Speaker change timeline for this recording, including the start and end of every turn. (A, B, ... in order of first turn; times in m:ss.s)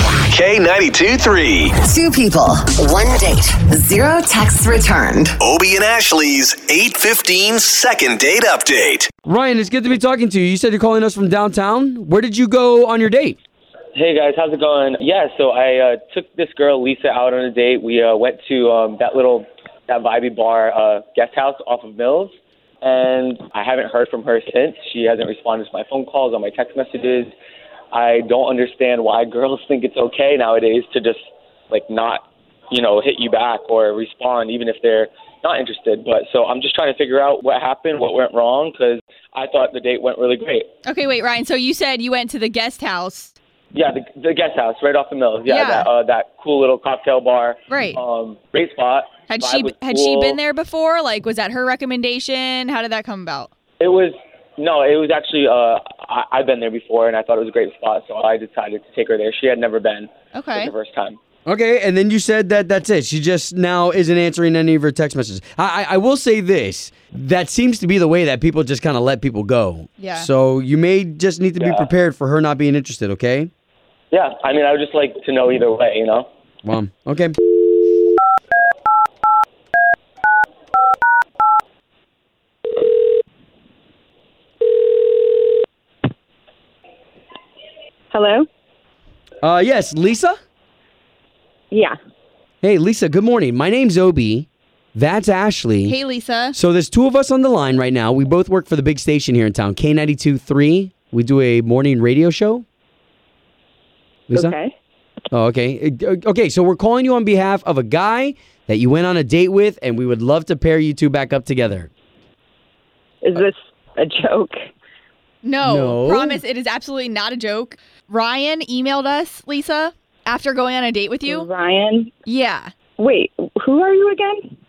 0:00.3-0:01.8 A
0:01.8-0:05.4 B
0:05.4-0:09.1 A
0:09.2-0:13.4 C
0:14.0-0:27.3 D
0:27.9-0:31.2 D
0:31.7-0:40.7 D
0:40.8-0:43.3 E
0:43.7-0:50.4 D
0:45.5-0:45.9 E
0:47.7-0:48.0 E
0:49.3-0:53.5 E
0:53.8-1:01.2 D
1:00.3-1:00.7 E
1:01.5-1:13.5 C
1:10.0-1:10.3 E
1:11.6-1:11.9 D
1:14.1-1:16.3 D
1:16.6-1:17.4 C
1:28.1-1:28.5 F
1:29.4-1:30.4 C
1:31.7-1:32.0 F
1:32.6-1:36.0 C
1:35.8-1:36.5 E
1:36.5-1:42.6 C
1:44.3-1:44.5 C
1:44.3-1:44.7 F
1:45.3-1:51.9 C
1:53.2-1:54.6 F
1:55.4-2:01.5 E
1:55.6-1:56.4 C
2:01.3-2:02.1 F
2:02.2-2:02.7 E
2:03.0-2:04.5 F